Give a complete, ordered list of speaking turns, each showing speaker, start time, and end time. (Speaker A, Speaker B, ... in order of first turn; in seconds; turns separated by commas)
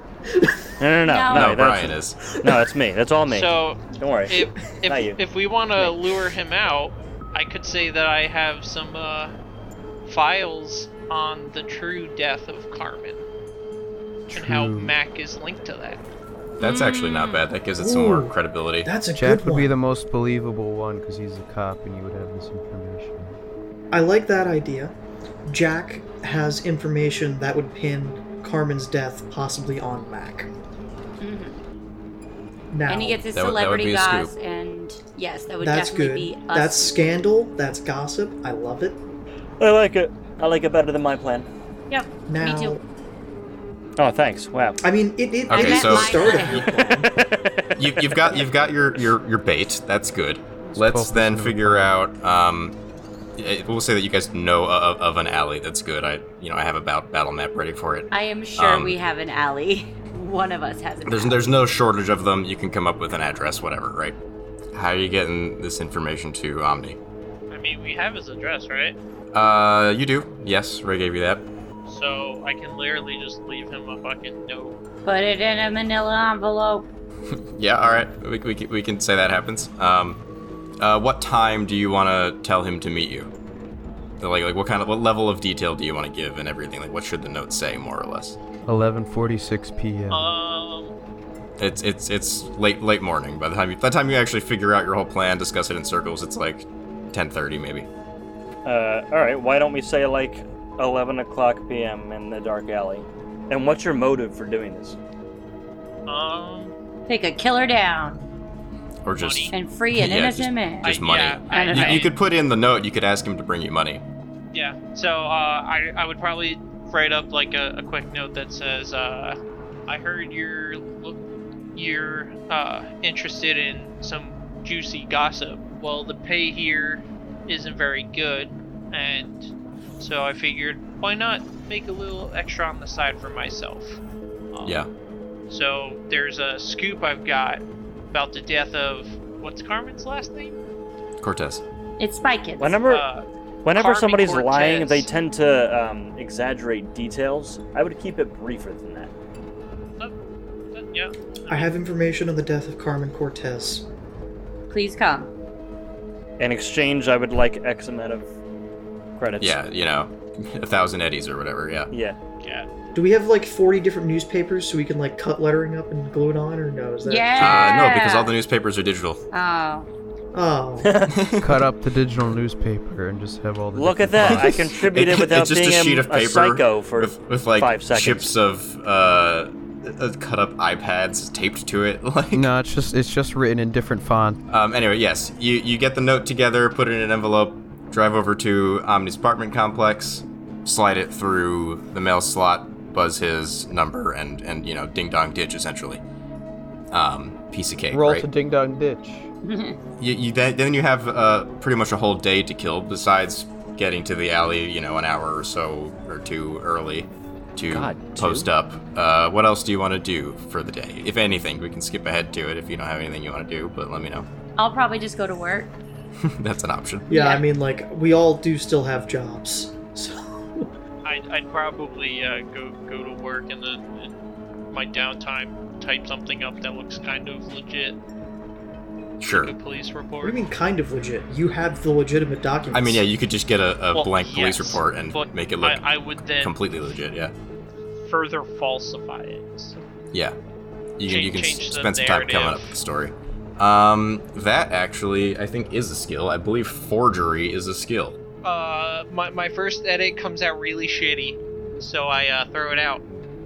Speaker A: 0.3-0.6, Speaker B: 0.8-5.2, Speaker C: 1.1-1.6, Speaker D: 1.3-2.2, Speaker A: 2.2-2.7, Speaker E: 3.3-9.3, Speaker E: 10.1-13.2, Speaker F: 14.3-14.9, Speaker E: 14.3-16.0, Speaker C: 16.6-17.4, Speaker D: 16.6-18.9, Speaker A: 17.8-19.7, Speaker F: 19.1-23.4, Speaker A: 23.9-24.9, Speaker A: 25.5-30.5, Speaker C: 31.2-31.6, Speaker A: 32.7-33.2, Speaker C: 32.9-37.0, Speaker D: 33.3-34.3, Speaker A: 35.6-39.0, Speaker B: 39.6-41.5, Speaker C: 41.9-42.8, Speaker A: 42.3-42.8, Speaker B: 44.0-44.8, Speaker A: 44.8-47.1, Speaker D: 45.5-46.6, Speaker C: 45.5-46.7, Speaker B: 46.7-48.4, Speaker D: 47.8-52.8, Speaker F: 50.8-52.0, Speaker D: 53.4-58.9, Speaker C: 58.1-61.5, Speaker D: 61.0-64.2, Speaker D: 64.7-67.0, Speaker E: 67.5-69.0, Speaker D: 69.3-71.5, Speaker E: 71.9-74.8, Speaker C: 75.0-76.9, Speaker D: 77.3-80.2, Speaker D: 80.8-83.3, Speaker D: 84.2-88.4, Speaker F: 88.7-90.3, Speaker E: 90.1-90.9, Speaker D: 91.6-97.9, Speaker B: 98.6-105.0, Speaker E: 106.1-106.7, Speaker C: 107.1-108.2, Speaker D: 109.0-114.0, Speaker E: 109.2-109.5, Speaker C: 109.5-112.1, Speaker E: 110.8-112.1, Speaker E: 114.5-121.2, Speaker E: 121.7-134.0, Speaker E: 134.5-134.8, Speaker D: 134.6-134.9, Speaker E: 135.5-140.6, Speaker D: 141.2-141.6, Speaker C: 142.0-142.8, Speaker B: 142.6-143.1, Speaker E: 142.8-145.1, Speaker B: 143.6-149.1, Speaker E: 150.7-151.7, Speaker A: 151.5-153.8, Speaker C: 154.7-155.3, Speaker B: 156.4-158.3, Speaker B: 159.2-159.6, Speaker D: 159.4-161.9, Speaker B: 161.9-162.2, Speaker E: 162.4-162.7, Speaker A: 162.9-167.7, Speaker C: 167.0-168.3, Speaker D: 167.4-169.2, Speaker C: 169.3-169.9, Speaker A: 170.3-170.9, Speaker B: 170.8-171.2, Speaker D: 171.1-171.5, Speaker F: 171.4-174.7, Speaker B: 173.7-178.3, Speaker D: 174.2-182.5, Speaker F: 182.3-184.4, Speaker D: 184.5-196.0, Speaker D: 196.9-198.3, Speaker F: 197.9-199.3, Speaker C: 199.4-199.8, Speaker D: 200.0-214.3, Speaker B: 207.7-208.5, Speaker C: 214.6-215.7, Speaker D: 216.2-217.1, Speaker A: 217.1-220.7, Speaker C: 217.1-217.4, Speaker E: 221.0-224.2, Speaker E: 224.7-228.0, Speaker D: 229.2-229.5, Speaker E: 229.3-230.4, Speaker A: 230.2-233.0, Speaker D: 232.7-237.3, Speaker E: 233.9-236.6, Speaker E: 238.0-239.8, Speaker D: 241.0-248.2, Speaker E: 241.1-242.8, Speaker E: 248.4-253.0